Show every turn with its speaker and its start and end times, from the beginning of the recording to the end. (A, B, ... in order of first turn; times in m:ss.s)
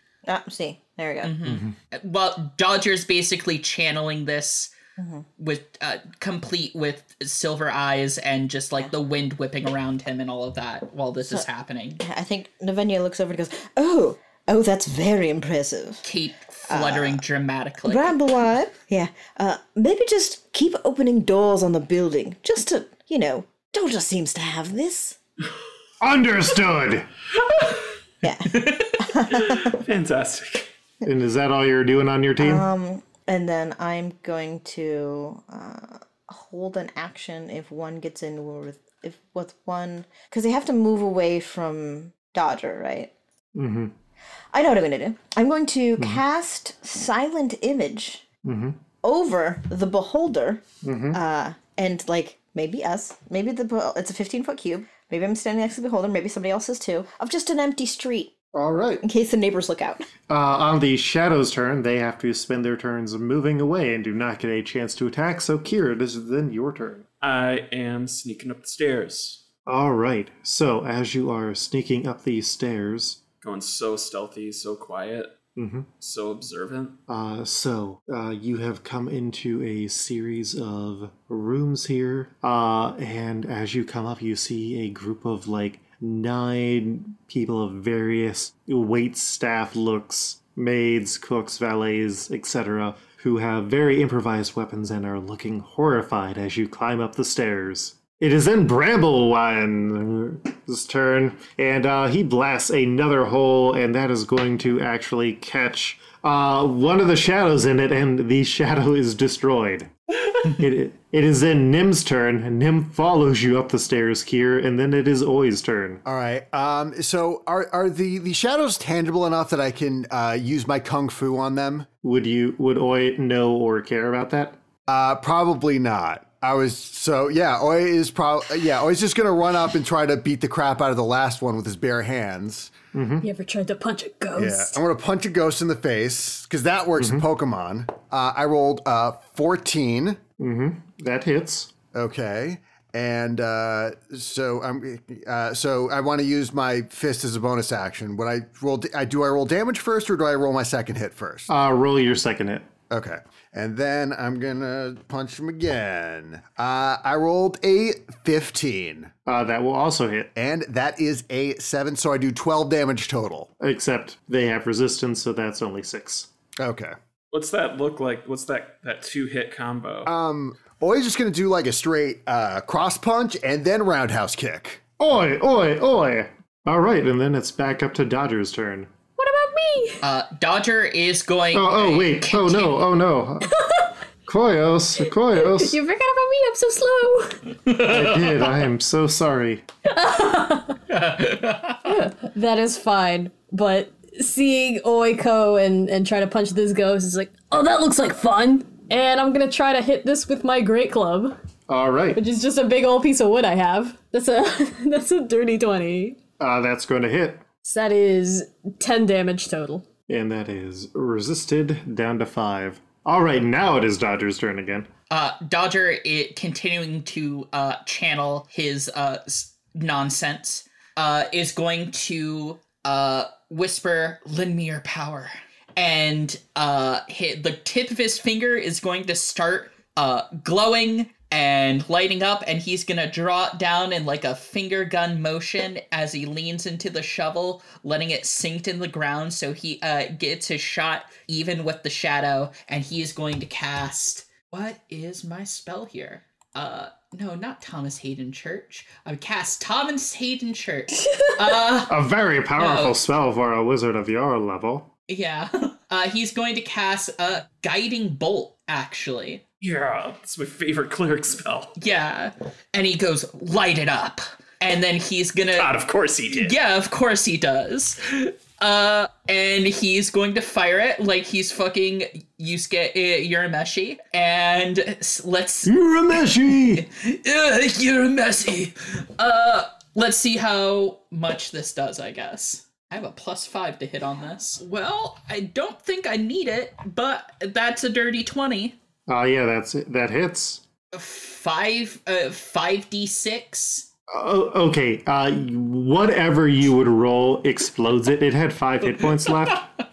0:00.2-0:01.4 A
0:01.2-0:04.7 B
0:01.4-0:01.8 C
0:05.0-0:05.2 A
0:05.4-0:12.0 B
0:12.0-0:16.0 A
0:16.0-0:18.1 B
0:16.7-0:17.2 A
0:17.8-0:25.2 A
0:26.0-0:27.1 C
0:28.2-0:29.8 A
0:28.8-0:30.7 D
0:31.0-0:32.6 C
0:32.4-0:43.1 A
0:43.5-0:43.9 C
0:44.5-0:48.2 A
0:48.4-0:48.8 C
0:49.0-0:58.3 A
0:50.8-0:51.2 C
0:58.5-0:59.0 C
0:59.0-1:00.1 A
1:00.3-1:07.0 C
1:07.2-1:09.4 D
1:09.6-1:13.2 C
1:13.4-1:15.4 D
1:15.6-1:15.9 C
1:16.0-1:17.0 D
1:17.1-1:56.0 C
1:56.0-2:01.9 E
2:02.0-2:04.6 C
2:04.9-2:12.7 E
2:12.9-2:13.3 C
2:13.2-2:14.8 F
2:14.4-2:20.2 E
2:17.0-2:17.2 C
2:20.4-2:21.7 C
2:21.9-2:31.5 E
2:31.5-2:32.7 C
2:32.9-2:39.1 E
2:39.2-2:40.3 C
2:40.3-2:43.5 E
2:43.6-2:46.3 C
2:46.6-2:46.9 E
2:47.3-2:50.1 D
2:50.0-2:54.8 E
2:55.0-2:58.9 C
2:59.2-3:00.0 F
3:00.0-3:02.8 B
3:01.5-3:03.6 C
3:03.5-3:03.9 F
3:04.2-3:05.8 C
3:05.3-3:07.6 F
3:07.8-3:09.6 C
3:09.9-3:10.8 F
3:11.0-3:11.8 B
3:11.8-3:21.4 F
3:21.7-3:22.2 C
3:22.1-3:26.2 F
3:26.4-3:27.4 C
3:27.6-3:29.8 F
3:30.1-3:34.9 C
3:35.1-4:12.0 B
4:11.8-4:14.9 C
4:12.6-4:13.0 B
4:15.1-4:19.4 B
4:19.6-4:21.8 D
4:21.8-4:25.7 B
4:25.5-4:26.5 D
4:26.3-4:48.8 B
4:35.6-4:36.8 C
4:49.1-4:50.6 C
4:50.9-4:53.9 B
4:54.1-4:59.7 C